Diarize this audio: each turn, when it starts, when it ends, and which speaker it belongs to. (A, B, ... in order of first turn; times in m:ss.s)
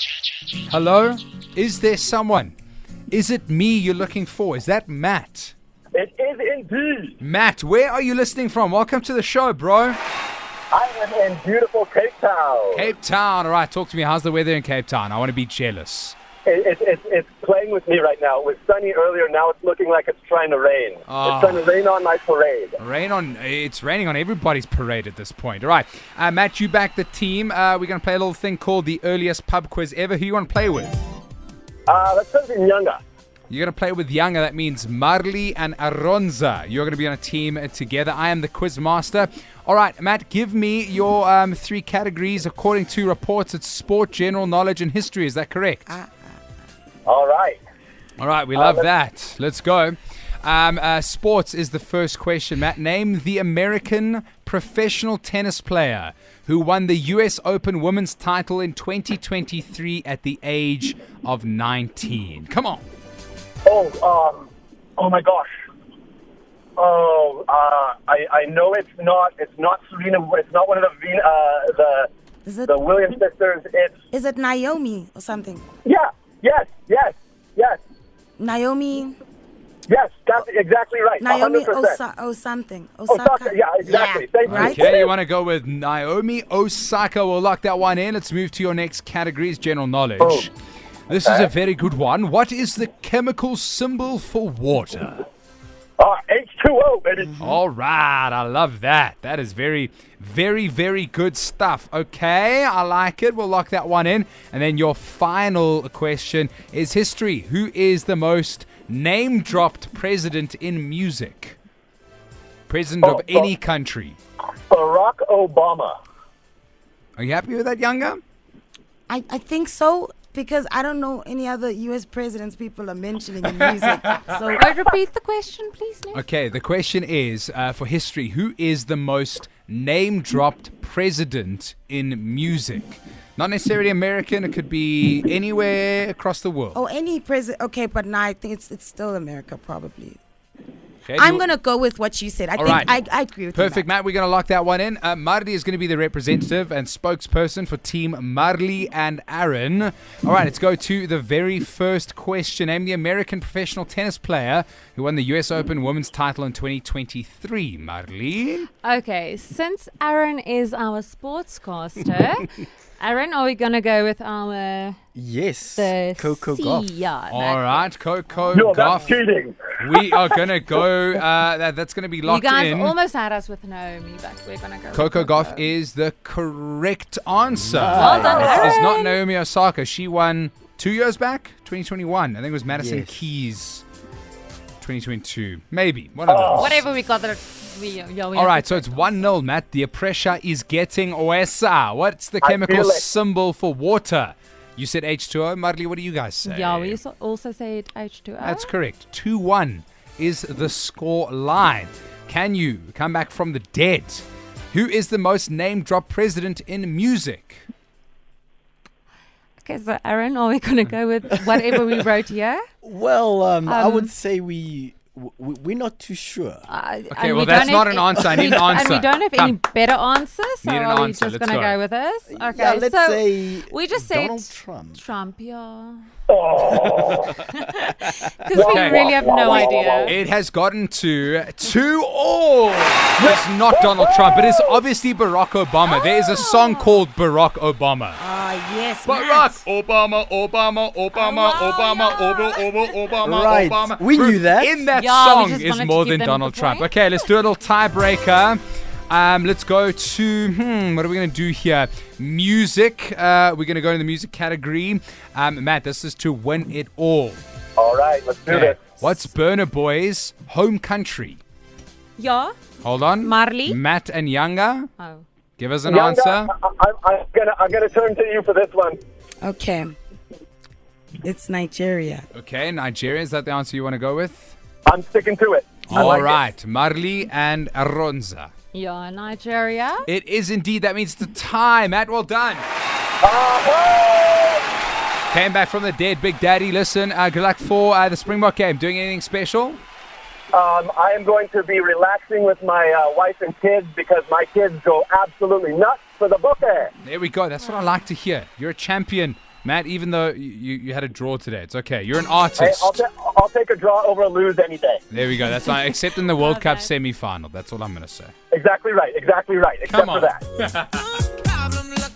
0:00.7-0:02.5 A
0:03.1-0:05.5 A
0:06.0-0:07.2 B
0:07.2-0:10.0 A
0:10.7-0:12.9 B
0:12.7-0:16.2 A
0:16.4-0:22.8 B
0:21.1-0:21.6 A
0:22.8-0:31.0 A
0:31.9-0:33.0 B
0:33.5-0:45.9 A
0:45.9-0:46.3 C
0:47.1-0:47.6 B
0:48.2-1:02.8 A
0:48.6-0:48.8 B
1:03.6-1:05.5 B
1:06.8-1:12.1 B
1:12.4-1:12.8 C
1:12.7-1:13.9 B
1:14.1-1:15.6 C
1:15.8-1:17.8 B
1:18.4-1:19.2 C
1:19.9-1:22.0 B
1:21.2-1:25.0 C
1:23.1-1:25.1 B
1:24.5-1:30.5 A
1:30.2-1:30.5 B
1:31.1-1:35.2 A
1:31.1-1:31.5 B
1:36.0-1:37.4 B
1:37.4-1:51.6 A
1:52.7-1:54.2 A
1:53.0-1:53.5 B
1:54.7-1:55.9 B
1:57.2-1:58.2 A
1:59.1-2:04.7 C
2:04.6-2:06.2 D
2:06.1-2:16.8 A
2:16.7-2:20.2 C
2:21.1-2:21.4 A
2:21.2-2:23.9 C
2:22.6-2:23.0 A
2:23.5-2:38.7 A
2:38.8-2:45.0 D
2:45.2-2:47.0 E
2:45.8-2:47.9 D
2:47.3-2:49.2 A
2:48.5-2:50.3 B
2:49.8-2:52.9 A
2:52.2-2:55.7 D
2:54.9-3:03.8 A
2:57.5-2:58.5 E
2:58.0-2:59.2 D
2:58.2-2:58.8 B
3:02.7-3:03.3 E
3:04.8-3:06.8 A
3:06.3-3:06.8 B
3:06.6-3:09.2 D
3:08.4-3:17.0 A
3:12.4-3:13.0 B
3:16.5-3:18.7 D
3:18.4-3:27.6 A
3:29.6-3:32.6 D
3:32.8-3:36.7 E
3:33.7-3:34.1 D
3:36.7-3:46.0 D
3:37.1-3:39.6 A
3:38.2-3:38.8 E
3:40.6-3:41.8 A
3:42.3-3:45.0 E
3:46.3-3:47.4 B
3:47.4-3:50.1 D
3:48.5-3:50.1 B
3:48.6-3:49.3 A
3:50.0-3:58.2 A
3:53.2-3:54.8 B
3:55.9-3:57.0 D
3:58.2-3:59.6 C
3:59.0-4:17.4 A
4:01.2-4:02.3 D
4:03.2-4:04.9 E
4:05.0-4:06.9 D
4:17.8-4:18.8 B
4:18.5-4:21.4 A
4:22.2-4:22.6 D
4:22.8-4:24.9 A
4:23.2-4:23.8 D
4:25.0-4:25.2 D
4:25.6-4:26.5 A
4:25.9-4:29.0 B
4:29.4-4:29.9 C
4:31.2-4:32.3 C
4:32.3-4:34.6 A
4:34.9-4:36.4 B
4:35.9-4:38.5 A
4:38.7-4:40.1 D
4:40.1-4:42.7 A
4:43.2-4:44.6 B
4:45.3-4:49.8 A
4:50.5-4:56.9 B
4:57.0-5:03.0 A
5:02.6-5:05.0 B
5:05.1-5:08.3 A
5:06.3-5:06.9 D
5:08.5-5:10.4 B
5:09.9-5:11.0 A